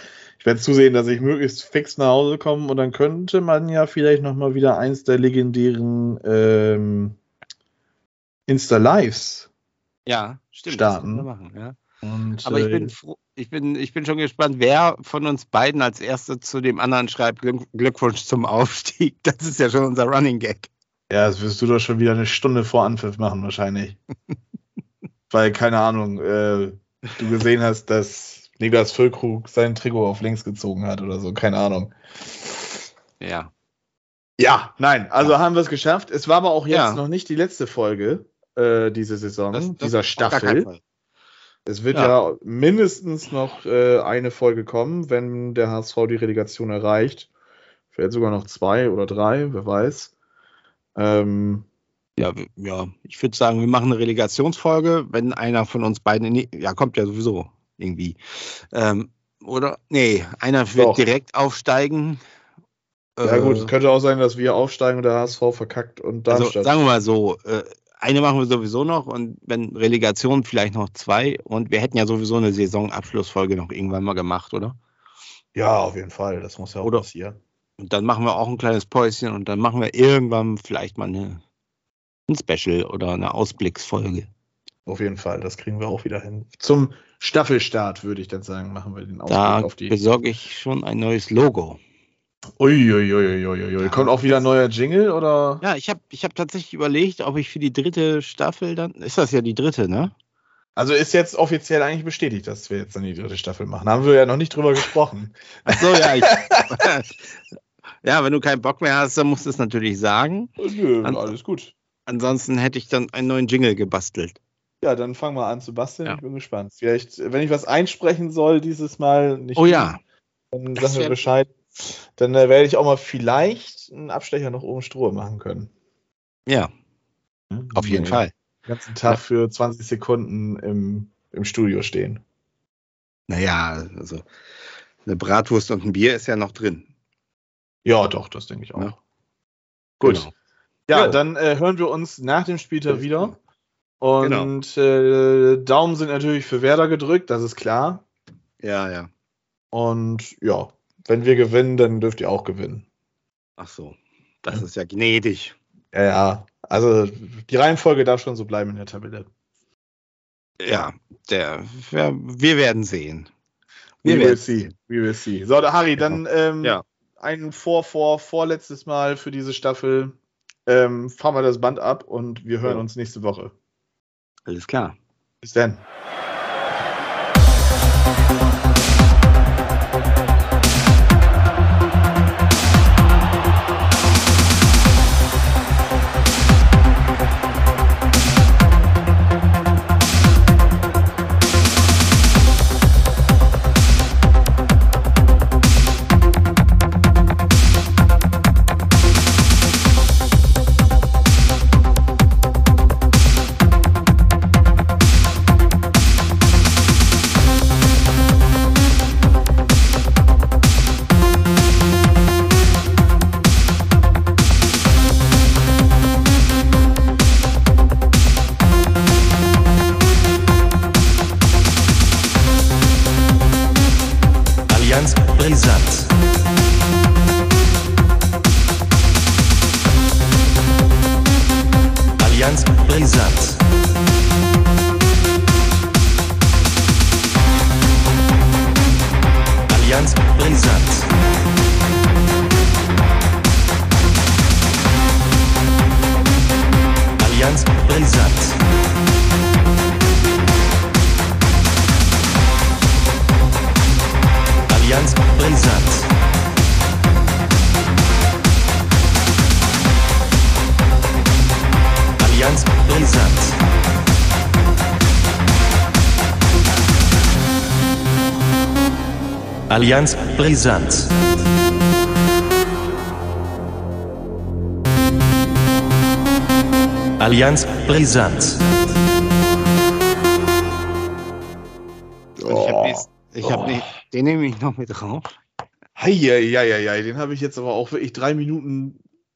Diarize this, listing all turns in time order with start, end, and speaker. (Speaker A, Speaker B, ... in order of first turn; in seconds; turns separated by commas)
Speaker A: 0.4-7.2, Speaker A: 8.5-9.5, Speaker B: 10.1-11.8, Speaker A: 10.7-11.3, Speaker A: 12.0-12.9, Speaker B: 12.4-20.7, Speaker A: 21.1-24.0, Speaker A: 25.3-31.9, Speaker B: 33.2-33.5, Speaker A: 34.4-40.7, Speaker B: 36.7-37.0, Speaker B: 39.5-40.8, Speaker A: 41.7-47.3, Speaker A: 47.9-50.1, Speaker A: 51.0-51.6, Speaker B: 52.2-62.2, Speaker A: 60.7-61.0, Speaker B: 63.2-63.7, Speaker A: 63.2-66.7, Speaker B: 66.3-74.8, Speaker A: 75.5-77.4, Speaker B: 77.8-81.4, Speaker B: 82.3-84.3, Speaker A: 84.9-90.0, Speaker B: 89.3-91.8, Speaker A: 92.6-95.6, Speaker B: 93.8-94.4, Speaker B: 95.6-100.1, Speaker A: 100.8-106.7, Speaker B: 105.7-107.4, Speaker B: 108.0-110.5, Speaker A: 110.6-111.7, Speaker B: 111.0-111.3, Speaker B: 112.1-114.4, Speaker A: 114.8-119.9, Speaker B: 119.5-120.0, Speaker A: 120.5-125.7, Speaker B: 120.7-121.2, Speaker A: 127.5-132.2, Speaker B: 127.7-128.3, Speaker B: 133.3-134.2, Speaker B: 135.0-136.9, Speaker A: 137.8-138.9, Speaker A: 140.0-140.3, Speaker B: 140.0-140.3, Speaker A: 140.9-143.3, Speaker B: 140.9-141.2, Speaker B: 142.9-143.3, Speaker A: 144.0-148.0, Speaker B: 144.2-144.5, Speaker B: 148.6-149.1, Speaker A: 149.7-152.8, Speaker B: 153.6-155.6, Speaker A: 155.9-159.3, Speaker B: 160.6-163.3, Speaker B: 164.0-164.4, Speaker A: 164.0-173.5, Speaker B: 166.0-166.8, Speaker B: 174.5-174.9, Speaker A: 175.4-175.8, Speaker C: 224.7-226.1, Speaker C: 232.2-233.6, Speaker C: 239.7-241.1, Speaker C: 247.2-248.6, Speaker C: 254.7-256.1, Speaker C: 262.2-263.6, Speaker C: 269.7-271.2, Speaker C: 277.2-278.7, Speaker A: 282.4-283.8, Speaker B: 282.4-285.3, Speaker A: 286.0-289.0